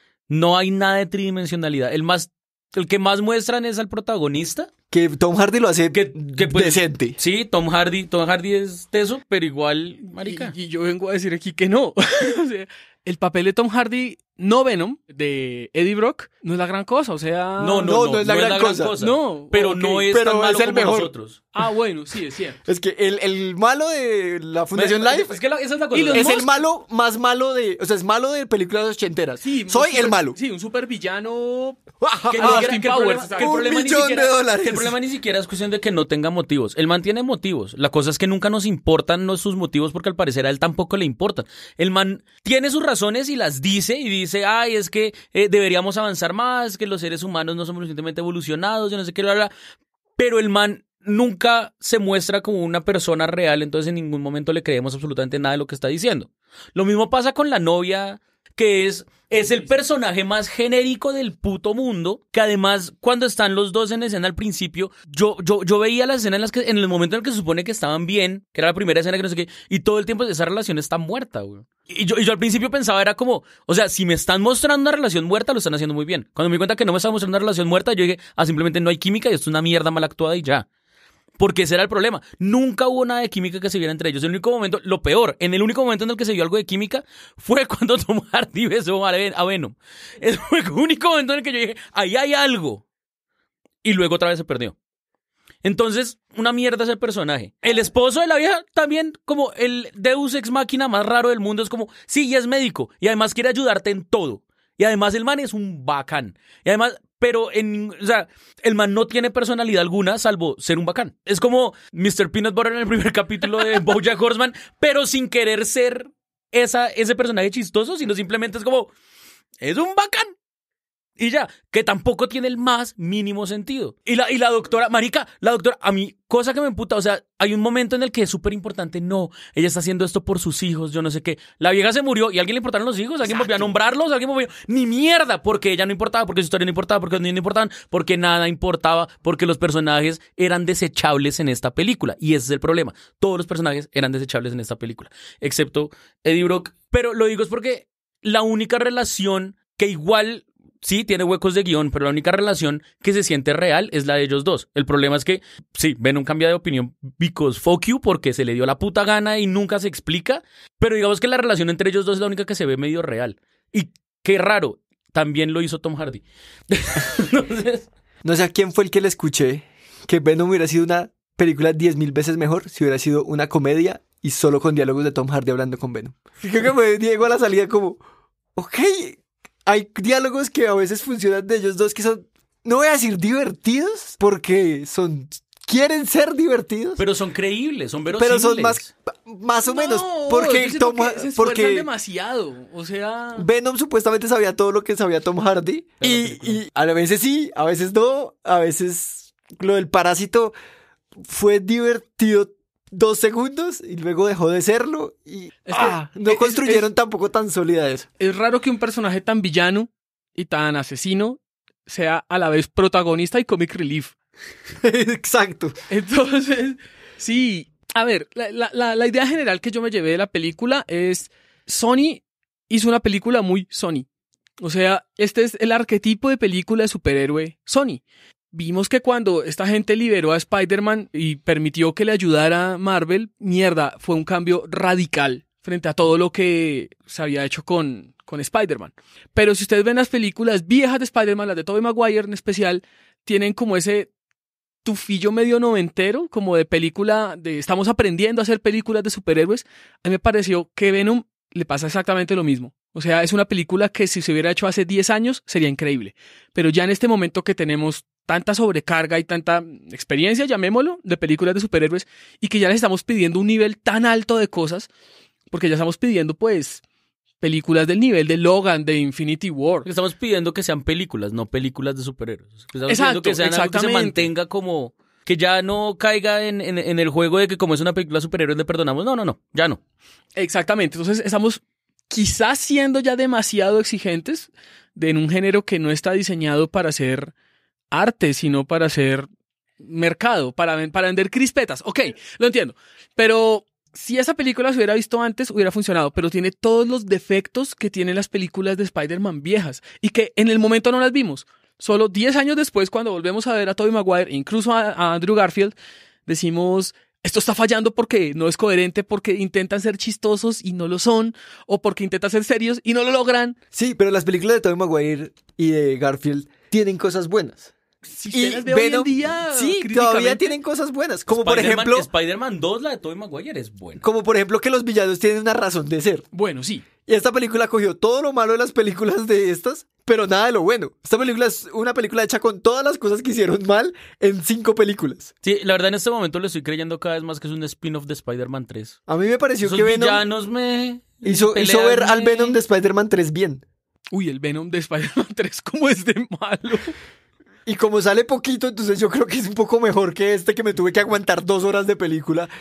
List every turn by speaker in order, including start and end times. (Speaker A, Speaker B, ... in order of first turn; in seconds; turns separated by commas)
Speaker A: 0.3-4.7, Speaker B: 4.9-7.2, Speaker A: 5.9-10.5, Speaker C: 10.2-17.9, Speaker A: 17.6-21.4, Speaker B: 17.8-18.9, Speaker C: 19.0-20.1, Speaker B: 20.1-21.1, Speaker C: 21.5-22.6, Speaker B: 22.7-25.4, Speaker A: 24.7-26.4, Speaker C: 25.9-26.6, Speaker B: 26.1-30.4, Speaker C: 29.4-33.8, Speaker B: 32.0-34.9, Speaker A: 32.3-49.5, Speaker A: 50.2-80.7, Speaker A: 81.4-92.8, Speaker A: 93.8-94.8, Speaker A: 95.6-118.9, Speaker A: 119.6-120.3, Speaker A: 121.2-167.8, Speaker B: 133.4-133.7, Speaker B: 168.2-178.0, Speaker B: 178.6-187.0, Speaker A: 187.0-188.9, Speaker B: 188.1-191.9, Speaker C: 189.6-193.4, Speaker B: 193.3-200.5, Speaker A: 196.0-196.6, Speaker B: 201.2-208.1, Speaker C: 205.7-206.8, Speaker C: 208.2-214.1, Speaker B: 214.8-215.7, Speaker C: 215.9-224.1, Speaker C: 224.6-228.0, Speaker C: 228.5-244.1, Speaker C: 244.8-264.9, Speaker C: 265.5-266.8, Speaker C: 267.4-269.9, Speaker A: 269.8-279.8, Speaker C: 272.9-274.3, Speaker C: 280.4-287.3, Speaker C: 287.9-289.3, Speaker C: 289.8-305.7, Speaker C: 306.3-313.6, Speaker B: 313.7-317.7, Speaker C: 318.1-320.6, Speaker B: 318.3-322.1, Speaker A: 321.3-324.0, Speaker B: 324.0-326.2, Speaker C: 326.3-326.8, Speaker B: 327.1-335.3, Speaker A: 335.4-339.0, Speaker B: 339.1-340.2, Speaker A: 339.6-342.6, Speaker B: 341.2-343.6, Speaker C: 344.1-346.9, Speaker B: 347.6-352.5